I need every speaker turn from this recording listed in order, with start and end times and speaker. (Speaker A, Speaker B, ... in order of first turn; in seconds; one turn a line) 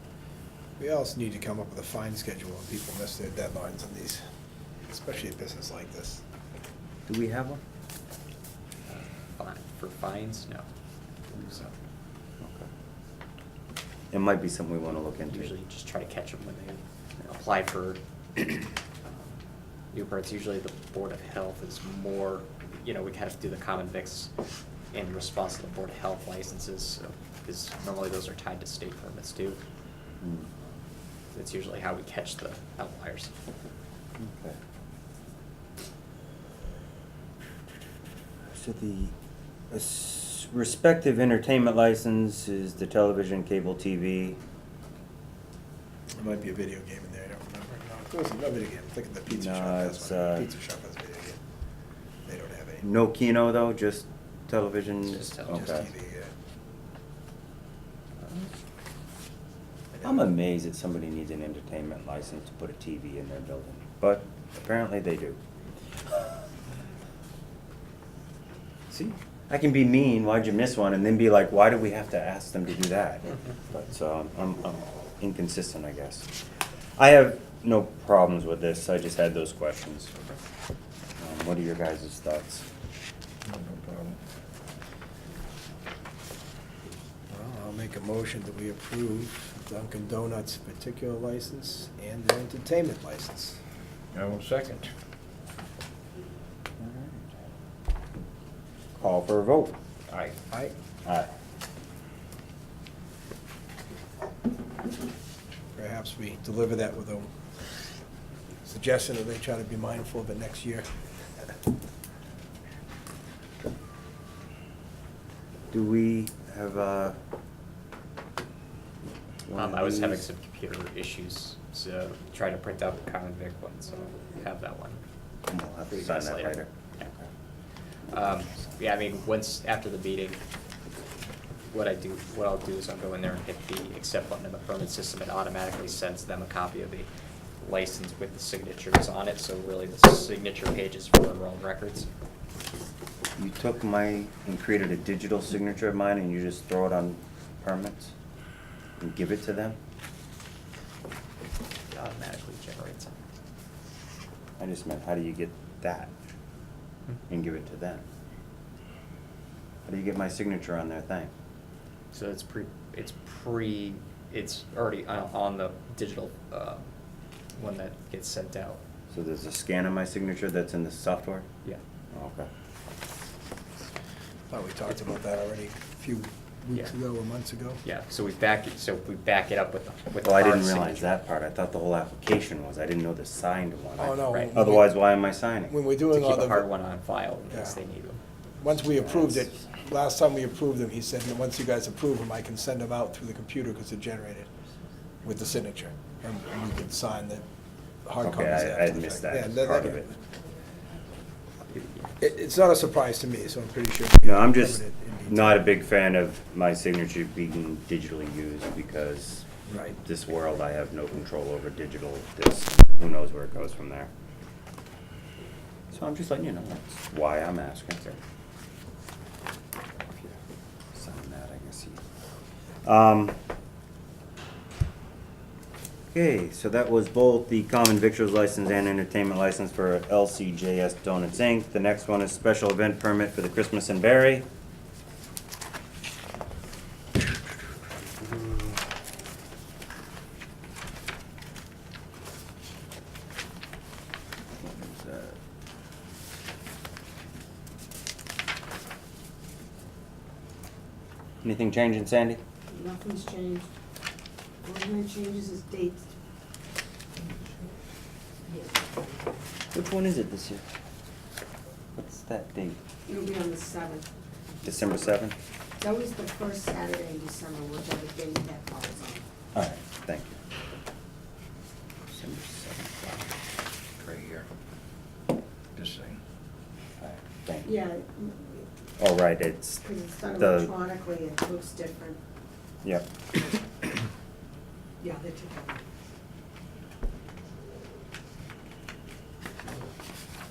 Speaker A: 0.8-4.2
Speaker A: 4.8-6.2
Speaker B: 7.1-7.6
Speaker C: 8.9-10.7
Speaker C: 11.3-11.8
Speaker B: 12.4-12.7
Speaker B: 14.1-15.5
Speaker C: 15.3-19.3
Speaker C: 19.9-24.3
Speaker C: 24.9-29.6
Speaker B: 30.2-30.5
Speaker C: 31.3-33.3
Speaker B: 34.2-34.6
Speaker B: 38.5-39.1
Speaker B: 39.7-44.4
Speaker A: 46.1-51.4
Speaker B: 49.4-50.5
Speaker A: 52.3-52.9
Speaker B: 52.8-55.9
Speaker C: 55.1-55.6
Speaker A: 55.5-56.3
Speaker B: 60.0-65.4
Speaker B: 68.9-76.3
Speaker B: 77.0-80.1
Speaker B: 81.2-82.7
Speaker D: 83.5-84.2
Speaker A: 87.3-93.6
Speaker D: 94.1-94.9
Speaker B: 96.8-97.4
Speaker B: 99.0-99.8
Speaker B: 101.0-101.3
Speaker A: 105.8-107.3
Speaker A: 108.6-110.9
Speaker B: 115.7-117.2
Speaker B: 119.5-120.2
Speaker C: 119.5-125.0
Speaker B: 125.5-127.3
Speaker C: 125.9-127.0
Speaker C: 128.1-130.4
Speaker C: 131.7-137.1
Speaker C: 137.6-142.1
Speaker B: 143.4-148.1
Speaker B: 149.0-149.8
Speaker C: 151.9-153.2
Speaker B: 154.6-156.1
Speaker B: 157.3-158.0
Speaker B: 159.9-161.3
Speaker C: 162.1-166.9
Speaker C: 167.6-168.8
Speaker B: 169.1-171.5
Speaker B: 172.1-172.5
Speaker A: 174.5-177.8
Speaker C: 177.8-181.1
Speaker B: 180.2-185.7
Speaker A: 184.0-185.0
Speaker C: 184.3-184.7
Speaker A: 185.7-186.7
Speaker C: 186.1-188.2
Speaker A: 188.6-194.5
Speaker B: 189.0-189.4
Speaker A: 195.2-197.4
Speaker A: 198.1-200.2
Speaker B: 198.2-200.1
Speaker C: 201.7-202.1
Speaker A: 202.2-205.7
Speaker B: 204.2-209.5
Speaker A: 209.7-210.0
Speaker B: 210.0-214.1
Speaker B: 215.9-218.2
Speaker B: 220.1-220.4
Speaker B: 220.9-222.0
Speaker B: 222.8-223.4
Speaker B: 226.1-234.5
Speaker B: 238.1-238.8
Speaker B: 244.6-245.4
Speaker B: 251.4-252.4
Speaker E: 252.7-253.7
Speaker E: 254.6-256.1
Speaker E: 258.8-259.1
Speaker B: 259.7-260.6
Speaker B: 262.0-262.8
Speaker E: 263.1-264.1
Speaker B: 264.6-265.4
Speaker E: 265.8-269.3
Speaker B: 269.6-270.4
Speaker B: 272.1-273.3
Speaker D: 274.0-274.5
Speaker D: 275.8-276.2
Speaker B: 277.0-277.9
Speaker E: 277.6-278.7
Speaker B: 279.0-280.8
Speaker E: 279.8-282.2
Speaker B: 282.8-283.1
Speaker E: 285.0-285.9